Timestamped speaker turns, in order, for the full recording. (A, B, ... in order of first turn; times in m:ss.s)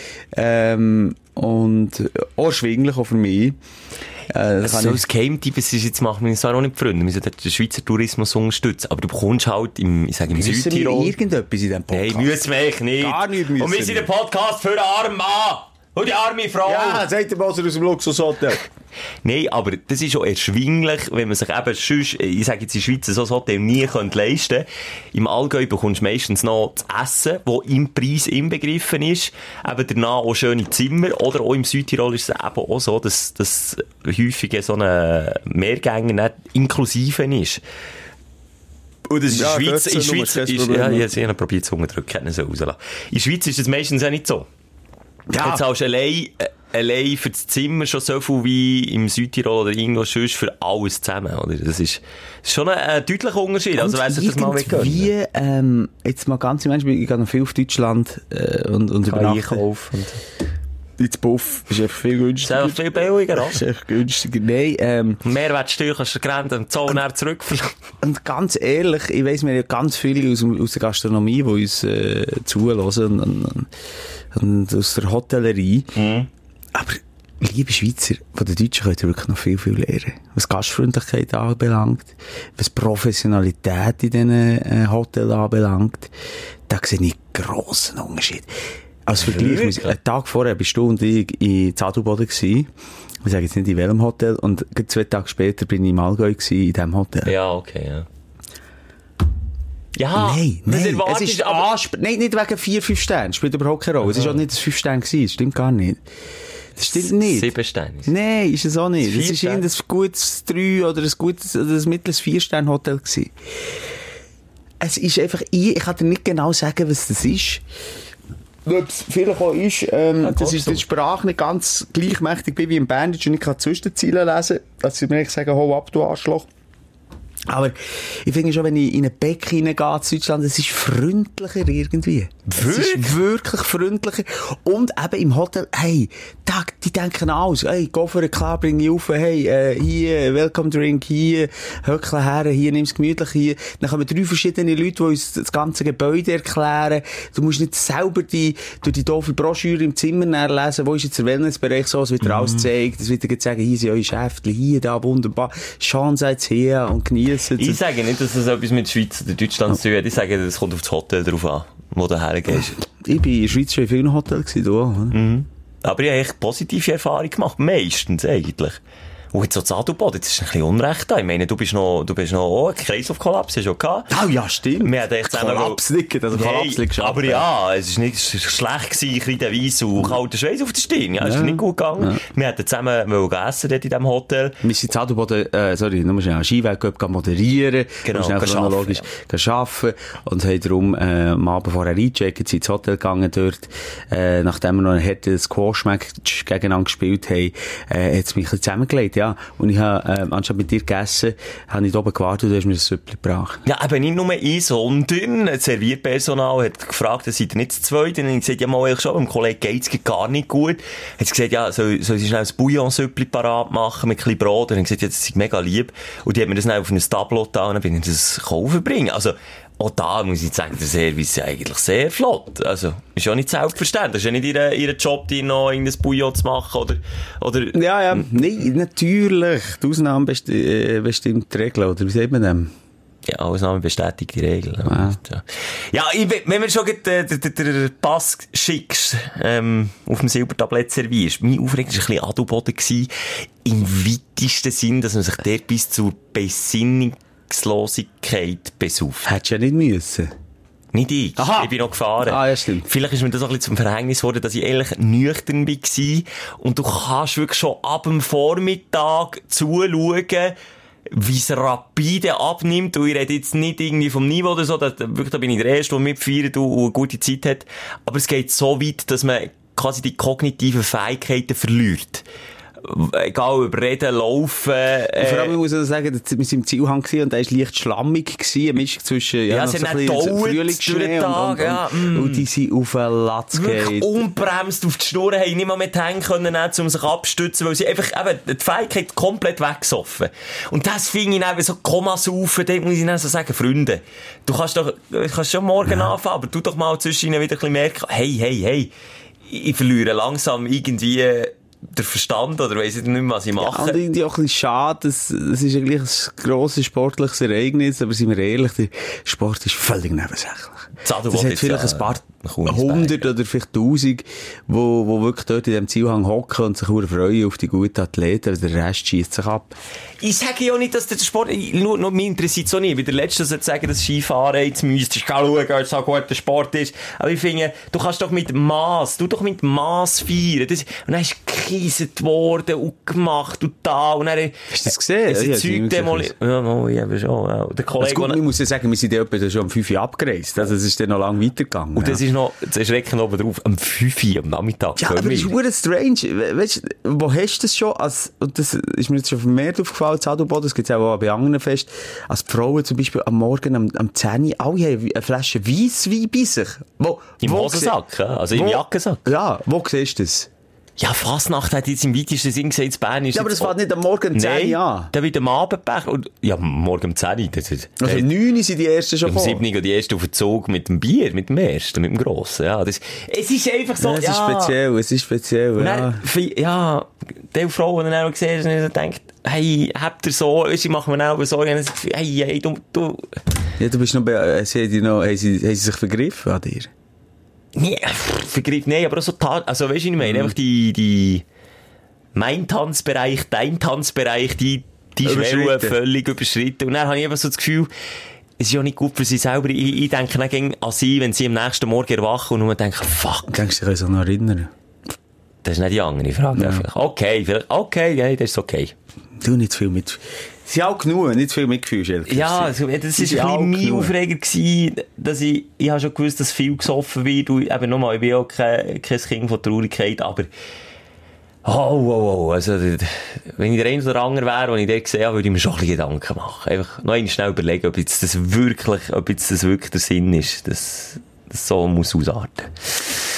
0:00.3-0:03.6 A
0:04.3-0:05.0 A
0:04.6-0:11.1 B
0:10.3-0:12.4 A
0:11.9-0:17.0 B
0:13.0-0:14.1 A
0:16.6-0:18.6 A
0:19.2-0:37.6 B
0:39.1-0:44.5 B
0:39.3-0:41.1 A
0:45.3-0:45.6 A
0:45.4-0:55.1 B
0:53.8-0:59.6 A
0:59.1-1:00.2 B
1:01.0-1:05.2 A
1:02.4-1:03.6 B
1:05.2-1:07.7 B
1:08.0-1:13.7 A
1:14.3-1:16.0 A
1:16.0-1:16.3 B
1:16.7-1:26.1 A
1:26.7-1:32.7 A
1:29.2-1:30.0 B
1:33.2-1:37.3 A
1:37.2-1:38.1 B
1:40.0-1:41.7 B
1:40.2-1:46.0 A
1:44.1-1:44.4 B
1:46.8-1:47.5 A
1:46.8-1:48.1 B
1:48.1-1:53.3 A
1:49.0-1:49.7 B
1:54.8-1:57.6 A
1:58.6-2:06.5 A
2:00.2-2:00.8 B
2:07.5-2:37.8 A
2:12.5-2:13.2 B
2:32.3-2:32.6 B
2:37.6-2:42.8 B
2:42.9-2:45.2 A
2:45.1-2:48.8 B
2:49.3-2:54.2 B
2:54.1-2:57.5 A
2:54.8-2:55.8 B
2:56.3-3:04.6 B
3:01.2-3:02.2 A
3:04.6-3:23.6 A
3:08.0-3:09.1 B
3:23.7-3:48.2 B
3:47.7-3:52.7 A
3:53.3-4:03.1 B
3:54.9-3:55.2 A
4:03.6-4:09.3 B
4:09.2-4:10.3 A
4:10.9-4:20.6 B
4:11.4-4:12.9 A
4:21.1-4:32.2 B
4:32.8-4:35.6 B
4:35.2-4:44.1 A
4:39.5-4:42.5 B
4:43.5-4:58.9 B
4:59.5-5:04.0 B
5:03.6-5:19.8 A
5:11.0-5:13.3 B
5:20.2-5:34.8 B
5:34.7-5:36.3 A
5:35.3-5:38.4 B
5:38.0-5:42.2 A
5:42.0-5:45.5 B
5:45.0-5:58.0 A
5:57.4-5:59.2 B
5:58.5-6:00.5 A
6:01.0-6:03.8 B
6:03.3-6:05.1 A
6:04.3-6:08.3 B
6:08.0-6:09.6 A
6:09.3-6:14.8 B
6:14.0-6:16.2 A
6:15.8-6:23.4 B
6:23.8-6:26.9 A
6:27.8-6:31.4 B
6:30.3-6:30.5 A
6:32.4-6:37.9 B
6:35.2-6:36.0 A
6:38.6-6:43.6 B
6:43.5-6:44.7 A
6:45.6-6:48.9 B
6:46.6-6:46.9 A
6:49.4-6:54.1 A
6:52.3-7:00.5 B
7:01.6-7:12.9 B